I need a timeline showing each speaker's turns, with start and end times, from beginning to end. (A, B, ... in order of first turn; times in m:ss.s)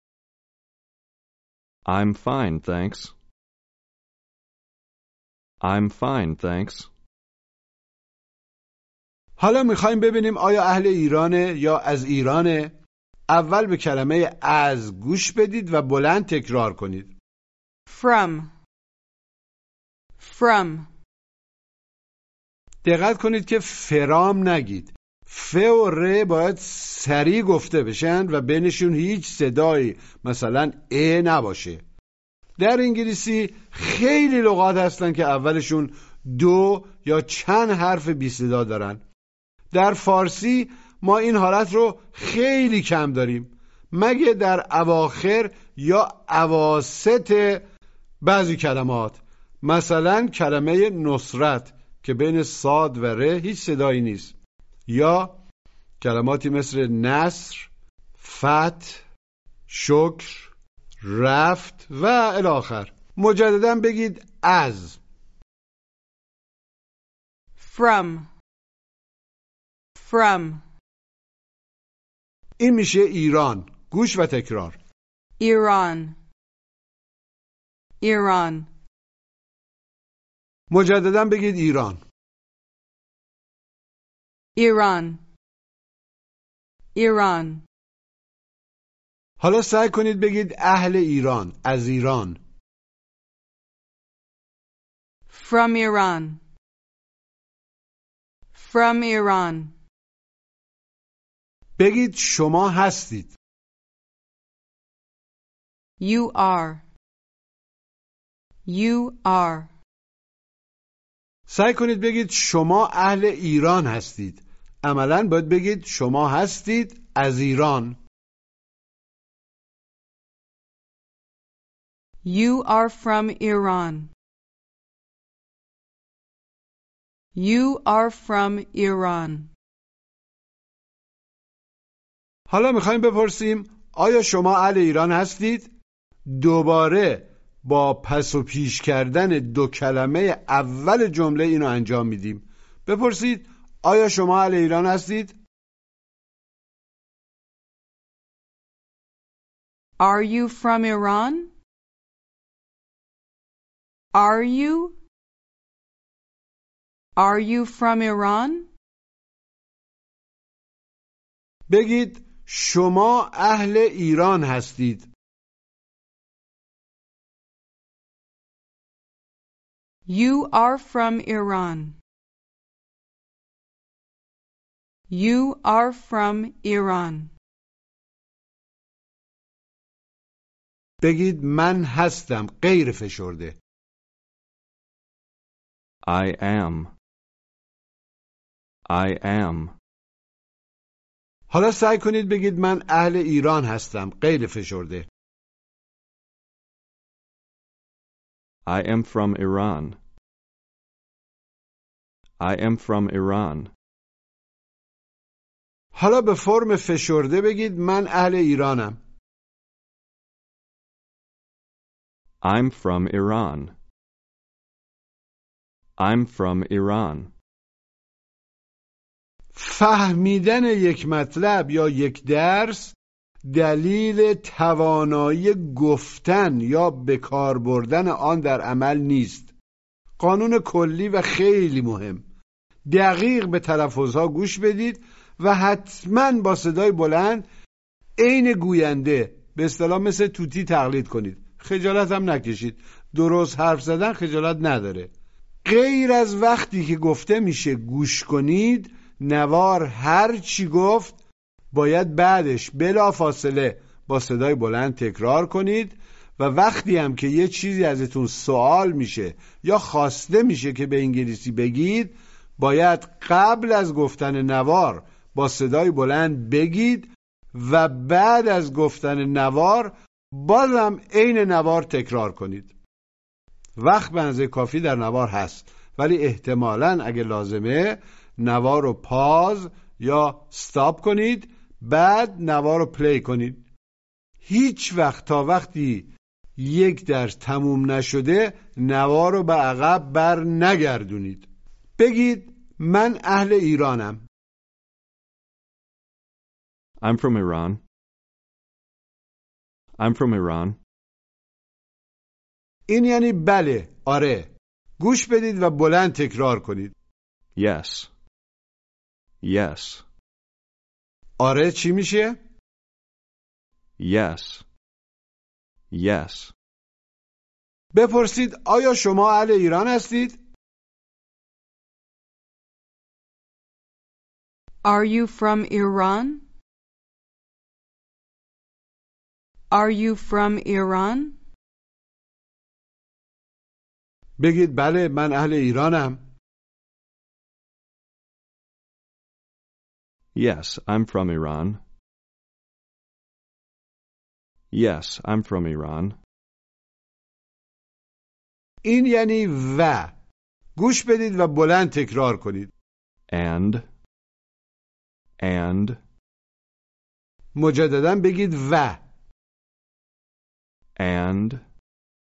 0:01.8-0:03.1 A
0:05.6-0:06.9 A
0:09.4-0:12.7 B
0:13.3-0:17.1 B
0:17.9-0:18.5 C
0:20.2-0:20.9 C
0:22.8-0:31.8 B
0:32.6-0:39.0 B
0:39.7-0:47.6 B
0:48.2-0:54.3 B
0:54.9-0:55.4 B
0:56.0-0:59.0 B
0:59.7-1:00.5 B
1:01.0-1:05.0 B
1:07.6-1:08.3 C
1:10.0-1:10.6 C
1:12.6-1:14.8 B
1:15.4-1:16.2 C
1:18.0-1:18.7 C
1:20.7-1:22.0 B
1:24.6-1:25.2 C
1:26.9-1:27.6 C
1:29.4-1:32.4 B
1:35.3-1:36.4 C
1:38.5-1:39.7 C
1:41.8-1:43.3 B
1:46.0-1:46.8 C
1:48.6-1:49.7 C
1:51.5-1:58.0 B
2:02.2-2:04.1 C
2:07.3-2:09.5 C
2:12.5-2:15.7 B
2:16.3-2:25.3 B
2:30.0-2:31.5 C
2:34.1-2:35.0 C
2:37.2-2:38.7 C
2:41.7-2:45.1 B
2:50.1-2:51.9 C
2:55.1-2:57.3 C
3:01.0-3:03.6 B
3:06.0-3:06.9 A
3:08.9-3:09.7 A
3:11.5-3:15.1 B
3:18.6-3:20.0 A
3:22.4-3:23.7 A
3:25.9-3:29.0 B
3:32.4-3:33.7 A
3:36.0-3:37.3 A
3:39.5-3:49.5 B
3:50.2-3:52.2 B
3:52.8-3:57.4 B
3:58.2-4:05.1 B
4:05.6-4:11.1 B
4:11.7-4:32.7 B
4:33.8-4:43.6 B
4:44.4-4:54.2 B
4:57.0-4:57.8 A
5:00.0-5:00.8 A
5:02.9-5:06.9 B
5:07.6-5:08.1 A
5:09.4-5:10.0 A
5:11.4-5:12.4 B
5:14.0-5:14.6 A
5:15.9-5:16.5 A
5:17.9-5:20.4 B
5:24.8-5:26.4 C
5:29.7-5:31.3 C
5:34.4-5:36.2 B
5:40.3-5:41.8 A
5:44.7-5:46.2 A
5:48.8-5:50.1 B
5:50.8-5:52.7 B
5:53.3-5:53.8 A
5:55.4-5:56.0 A
5:57.5-5:59.0 B
6:01.0-6:01.6 A